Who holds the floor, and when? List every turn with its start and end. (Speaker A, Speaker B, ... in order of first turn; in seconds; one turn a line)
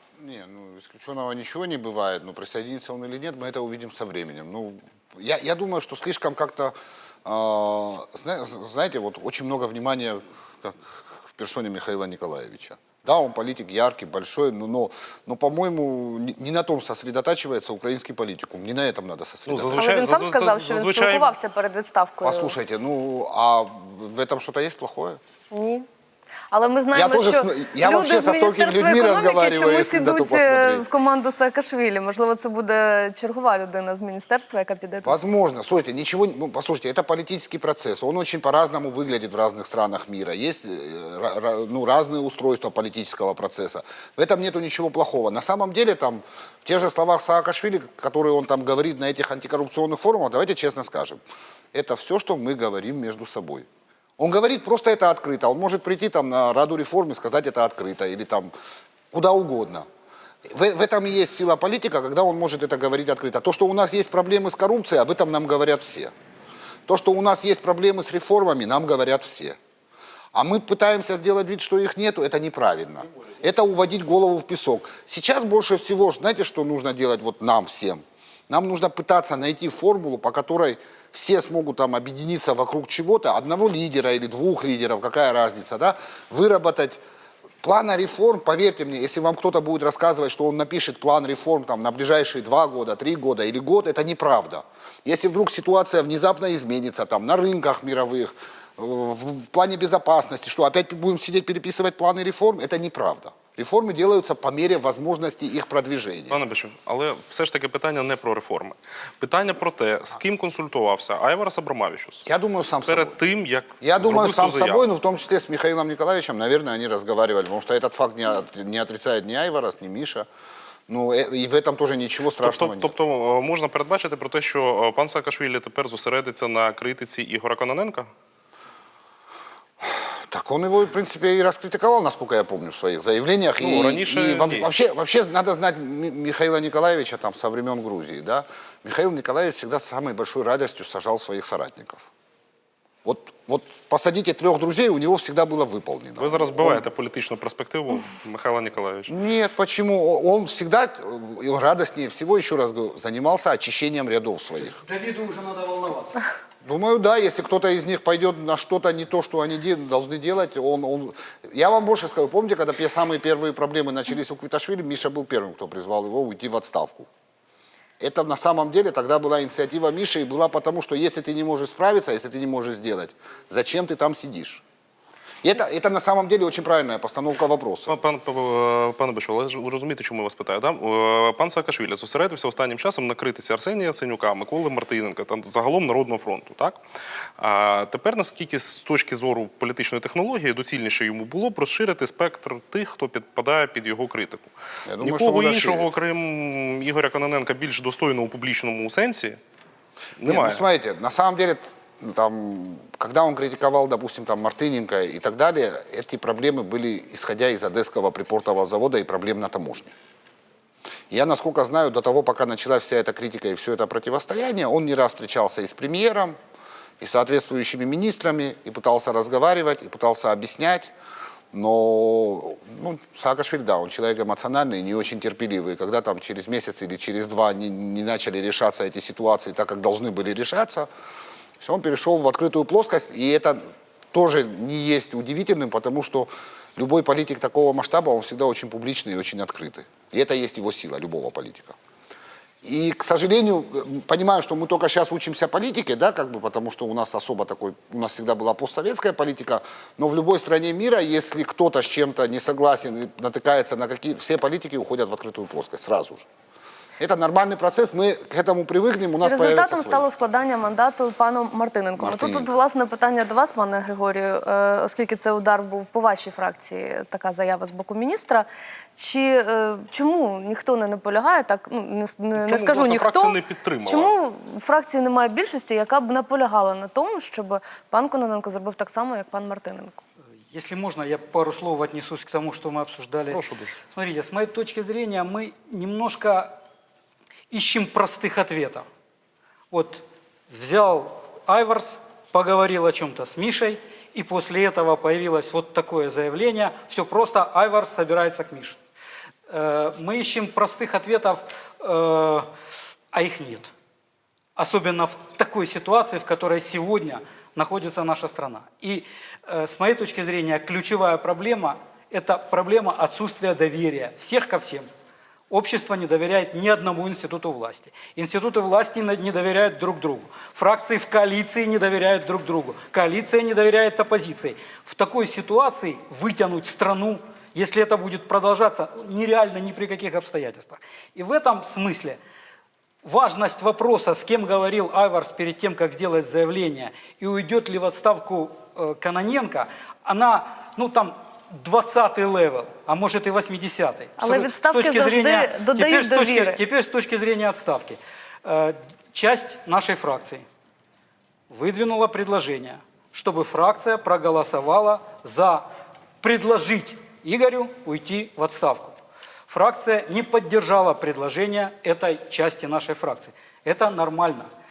Speaker A: 0.2-20.0
Speaker B: 19.5-21.3
Speaker C: 19.7-22.6
Speaker A: 22.2-25.2
Speaker C: 25.5-25.8
Speaker C: 26.5-35.1
Speaker A: 26.9-30.9
Speaker A: 35.0-51.2
Speaker A: 51.7-53.7
Speaker A: 54.2-58.5
Speaker A: 59.1-59.9
Speaker A: 60.5-66.1
Speaker A: 66.9-69.6
Speaker A: 70.3-87.0
Speaker A: 87.6-106.4
Speaker B: 106.3-112.2
Speaker A: 112.2-113.2
Speaker B: 112.8-114.9
Speaker A: 113.8-120.3
Speaker A: 120.9-122.9
Speaker B: 122.4-128.1
Speaker A: 129.8-142.0
Speaker B: 133.6-134.7
Speaker A: 143.0-146.8
Speaker B: 146.2-149.1
Speaker A: 149.1-154.8
Speaker D: 154.6-156.2
Speaker A: 156.6-167.1
Speaker A: 168.0-174.6
Speaker A: 175.4-177.9
Speaker B: 177.9-186.8
Speaker B: 187.4-199.4
Speaker A: 194.9-195.9
Speaker B: 200.2-200.6
Speaker A: 200.2-209.9
Speaker A: 211.1-216.3
Speaker A: 217.0-220.9
Speaker A: 221.5-230.9
Speaker A: 231.6-233.6
Speaker A: 234.1-241.7
Speaker A: 242.6-256.2
Speaker A: 257.0-260.0
Speaker C: 259.2-280.0
Speaker A: 262.0-262.5
Speaker B: 272.3-274.1
Speaker D: 280.5-286.5
Speaker B: 283.3-283.7
Speaker D: 287.5-288.8
Speaker D: 289.7-298.8
Speaker D: 299.5-302.4
Speaker D: 303.1-303.7
Speaker D: 304.6-314.9
Speaker D: 315.5-332.2
Speaker D: 333.0-350.4
Speaker C: 344.2-346.6
Speaker D: 351.5-355.6
Speaker D: 356.2-358.9
Speaker D: 359.5-364.5